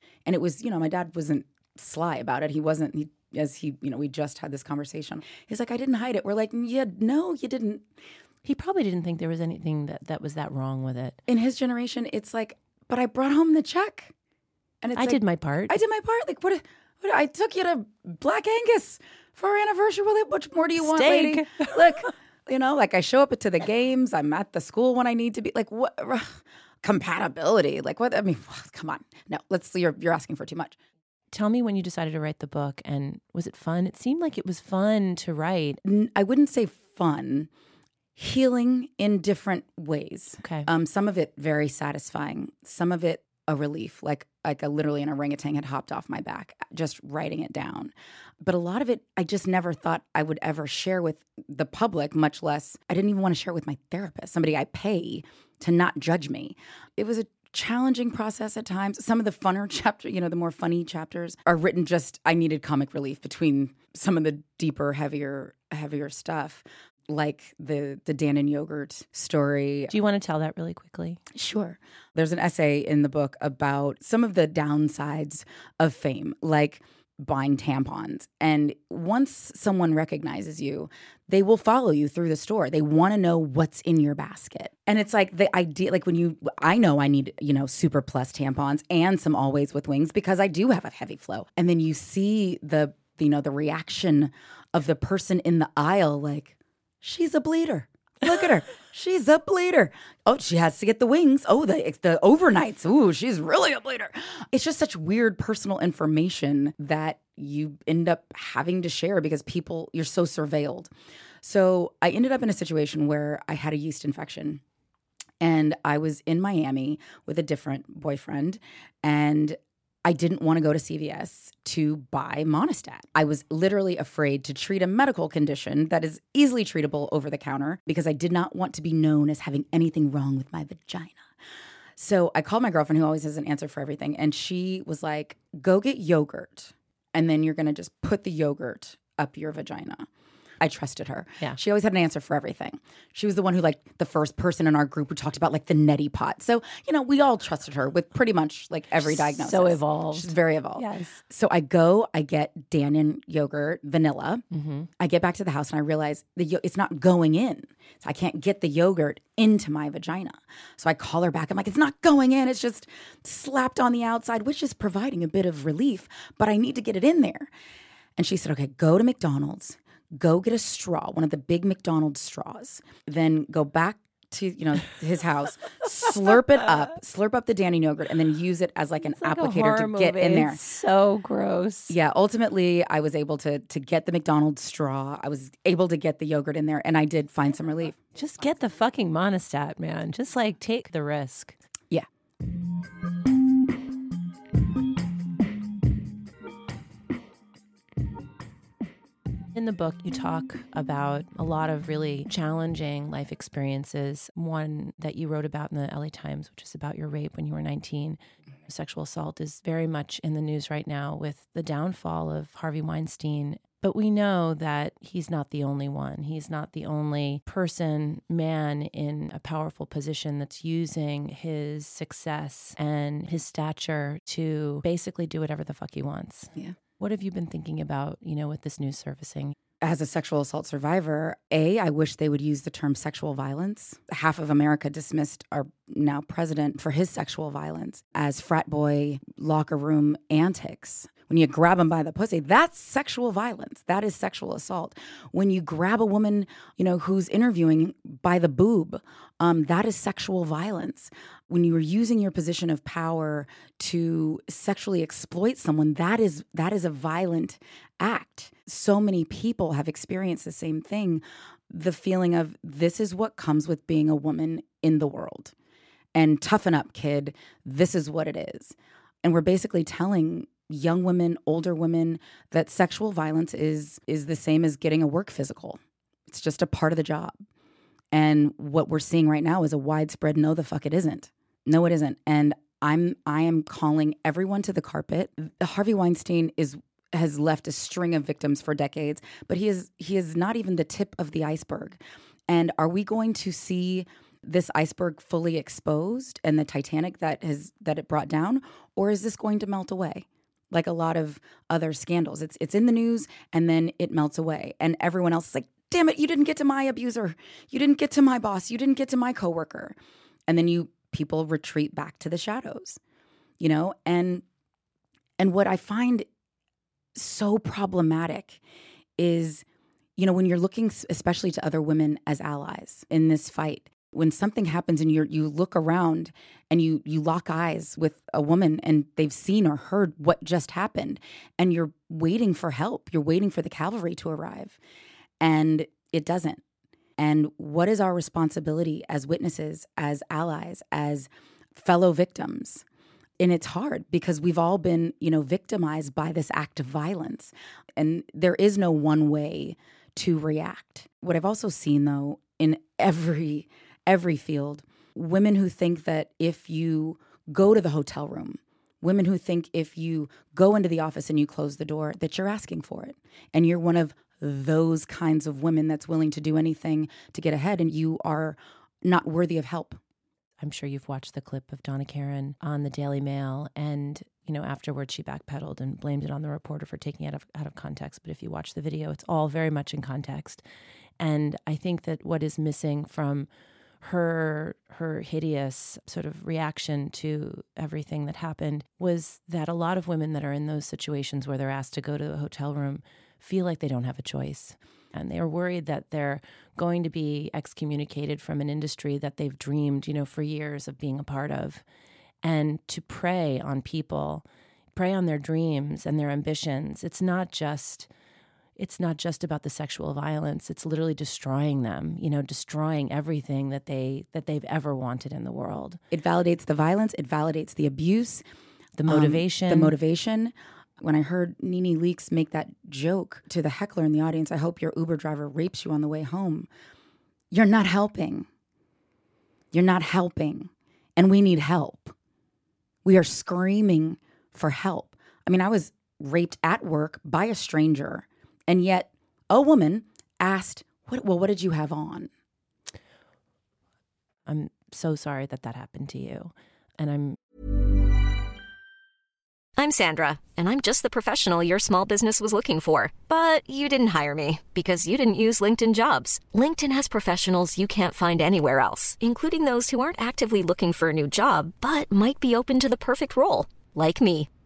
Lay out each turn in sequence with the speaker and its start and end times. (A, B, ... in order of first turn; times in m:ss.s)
0:00.2-0:07.9 A
0:08.4-0:11.2 B
0:11.3-0:14.1 A
0:14.8-0:30.8 A
0:15.0-0:15.8 B
0:20.8-0:22.1 B
0:31.3-0:35.8 B
0:35.8-0:37.5 A
0:38.2-1:09.9 A
0:40.4-0:40.7 B
1:09.9-1:11.2 B
1:11.3-1:50.9 A
1:51.4-1:54.6 A
1:55.4-2:11.3 A
2:12.0-2:20.1 A
2:20.6-2:34.4 A
2:29.0-2:31.2 B
2:34.5-2:34.9 B
2:35.0-2:47.5 A
2:48.2-3:00.6 A
2:59.1-3:01.9 B
3:01.9-3:08.0 A
3:08.1-3:11.6 B
3:19.5-3:49.5 B
3:49.8-4:25.5 A
4:26.1-4:37.4 A
4:38.1-5:10.0 A
5:10.5-5:13.0 A
5:13.6-5:14.4 A
5:15.4-5:16.3 A
5:17.1-5:18.6 A
5:19.2-5:19.6 A
5:20.2-5:34.8 A
5:35.4-5:36.6 A
5:37.2-5:42.8 A
5:43.4-6:10.0 A
6:10.6-6:20.6 B
6:21.2-6:23.5 B
6:24.0-6:41.8 B
6:42.4-6:48.1 B
6:48.8-6:56.0 B
6:56.1-6:58.4 A
6:59.0-6:59.9 B
6:59.1-7:06.7 A
7:07.5-7:08.5 A
7:09.7-7:12.1 A
7:13.0-7:22.3 A
7:24.4-7:27.4 B
7:29.8-7:44.5 C